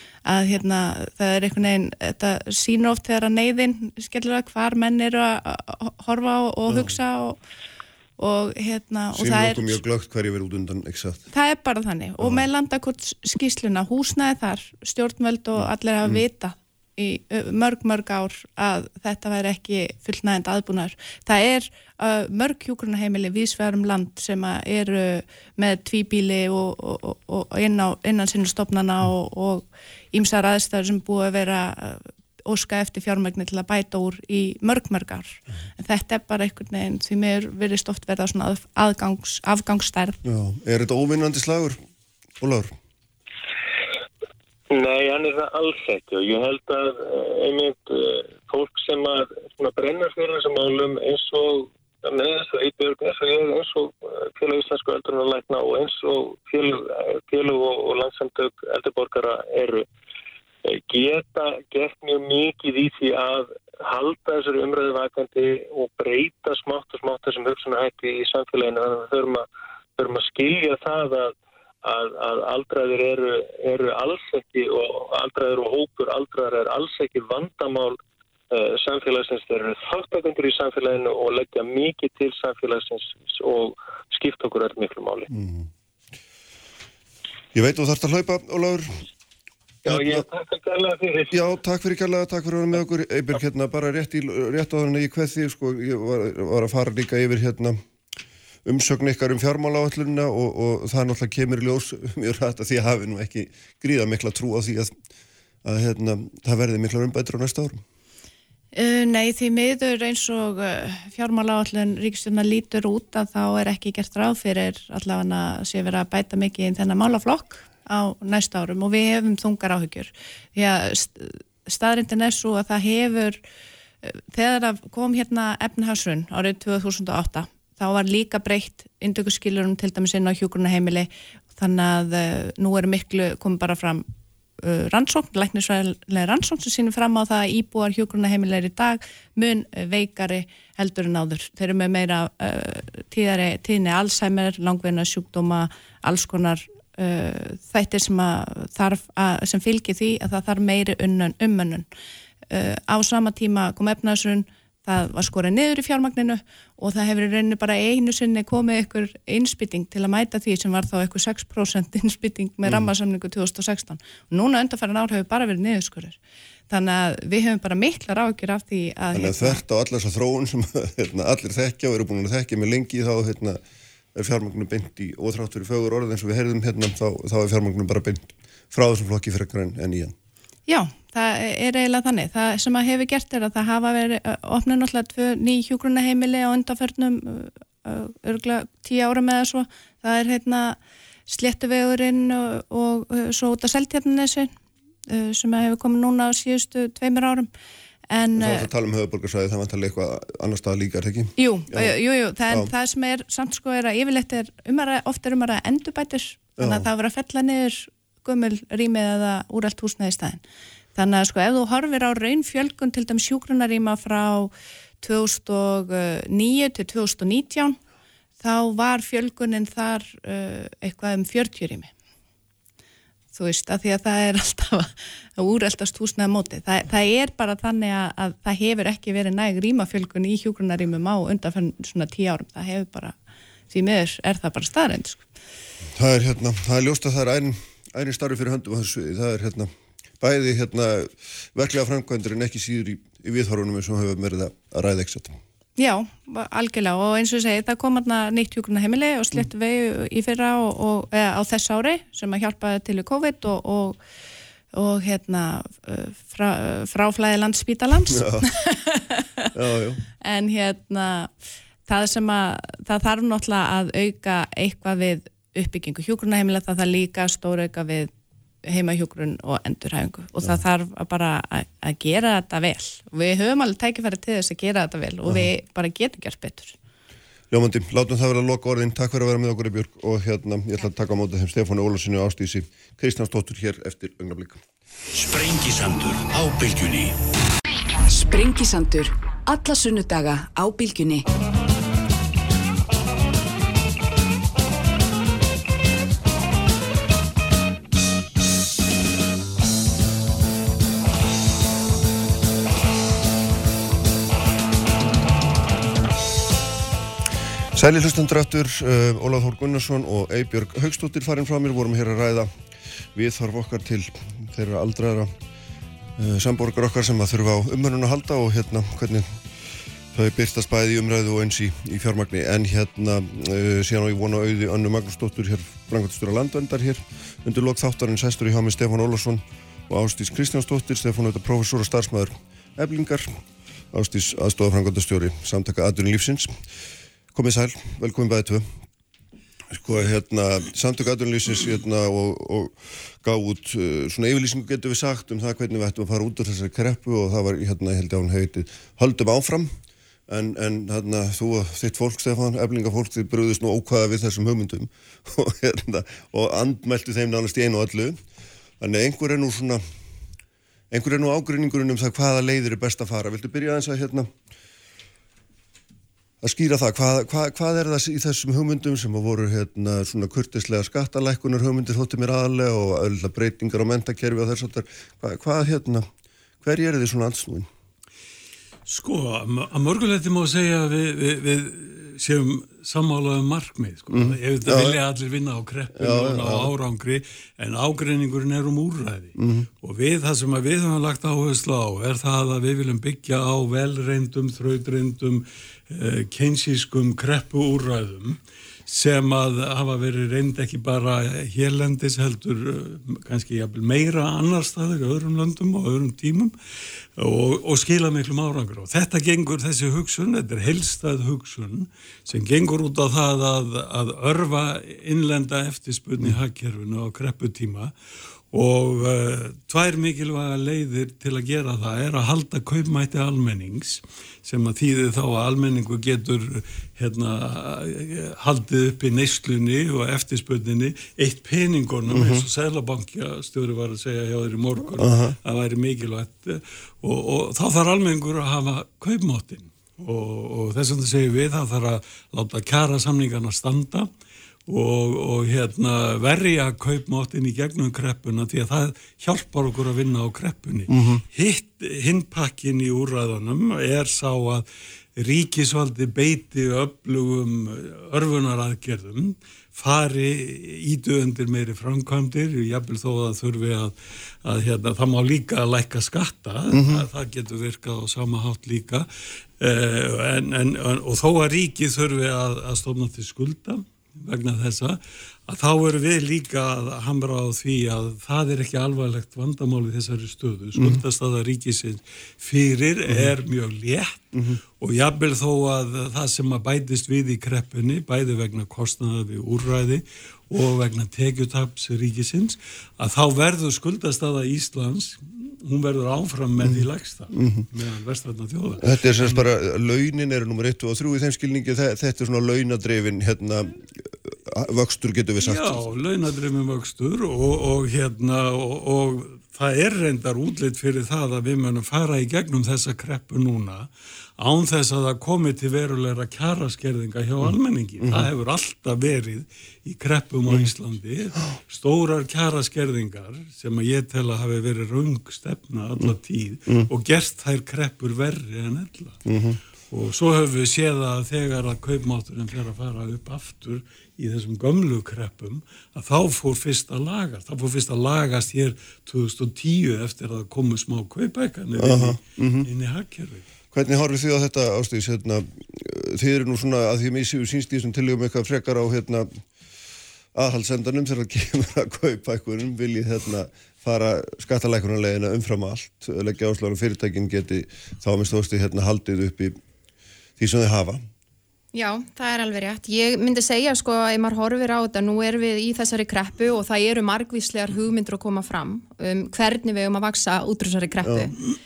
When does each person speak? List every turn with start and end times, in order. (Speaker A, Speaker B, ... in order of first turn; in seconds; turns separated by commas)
Speaker A: 0.2-7.4, Speaker B: 6.7-7.0, Speaker A: 8.2-9.8, Speaker B: 9.1-11.2, Speaker A: 11.3-40.2, Speaker B: 12.2-12.5, Speaker B: 15.6-16.2, Speaker B: 40.2-41.8, Speaker B: 42.4-42.7, Speaker C: 44.7-59.9, Speaker C: 60.7-69.4, Speaker C: 70.0-78.0, Speaker C: 78.5-85.3, Speaker B: 85.3-85.7, Speaker B: 87.5-88.9, Speaker C: 89.8-91.4, Speaker B: 89.8-90.2, Speaker B: 91.3-97.8, Speaker B: 98.6-104.9, Speaker B: 105.6-107.8, Speaker A: 108.7-123.4, Speaker A: 124.0-134.1, Speaker A: 134.6-151.9, Speaker A: 152.5-166.2, Speaker A: 166.7-169.6, Speaker B: 169.1-173.6, Speaker B: 174.1-180.1, Speaker A: 180.7-194.5, Speaker A: 195.1-197.5, Speaker A: 198.1-198.7, Speaker B: 198.3-201.9, Speaker A: 201.4-210.4, Speaker B: 206.6-206.9, Speaker A: 210.9-217.8, Speaker A: 218.4-221.9, Speaker A: 223.3-233.2, Speaker A: 233.7-235.3, Speaker B: 235.9-245.4, Speaker A: 245.8-254.0, Speaker A: 254.7-259.2, Speaker B: 258.1-258.5, Speaker B: 259.5-260.0, Speaker A: 260.2-261.3, Speaker A: 261.9-268.1, Speaker A: 268.6-276.8, Speaker B: 275.2-275.5, Speaker B: 277.5-284.6, Speaker D: 285.1-287.1, Speaker E: 288.0-291.2, Speaker B: 307.7-312.5, Speaker B: 313.1-315.3, Speaker B: 316.2-319.4, Speaker B: 320.1-333.3, Speaker B: 333.9-336.5, Speaker B: 337.3-338.6, Speaker B: 339.7-349.7, Speaker B: 350.3-358.2, Speaker B: 358.8-359.8, Speaker B: 360.9-364.3, Speaker B: 366.4-376.1, Speaker B: 376.6-377.7, Speaker F: 378.9-406.5, Speaker B: 384.1-385.0, Speaker B: 385.9-386.7, Speaker B: 389.4-389.7, Speaker F: 407.2-417.9, Speaker F: 418.5-444.1, Speaker B: 432.1-432.4, Speaker B: 435.0-435.4, Speaker F: 444.7-454.6, Speaker B: 450.9-451.2, Speaker F: 455.2-463.9, Speaker F: 464.4-469.1, Speaker B: 466.7-467.0, Speaker F: 469.6-499.4, Speaker B: 480.8-481.0, Speaker B: 497.3-497.6, Speaker B: 498.8-505.8, Speaker F: 505.4-513.9, Speaker F: 514.4-529.2, Speaker B: 518.0-518.3, Speaker B: 529.2-529.6, Speaker F: 529.9-543.4, Speaker B: 541.8-542.7, Speaker B: 543.7-549.4, Speaker B: 550.3-559.6, Speaker B: 560.4-561.0, Speaker G: 561.7-571.4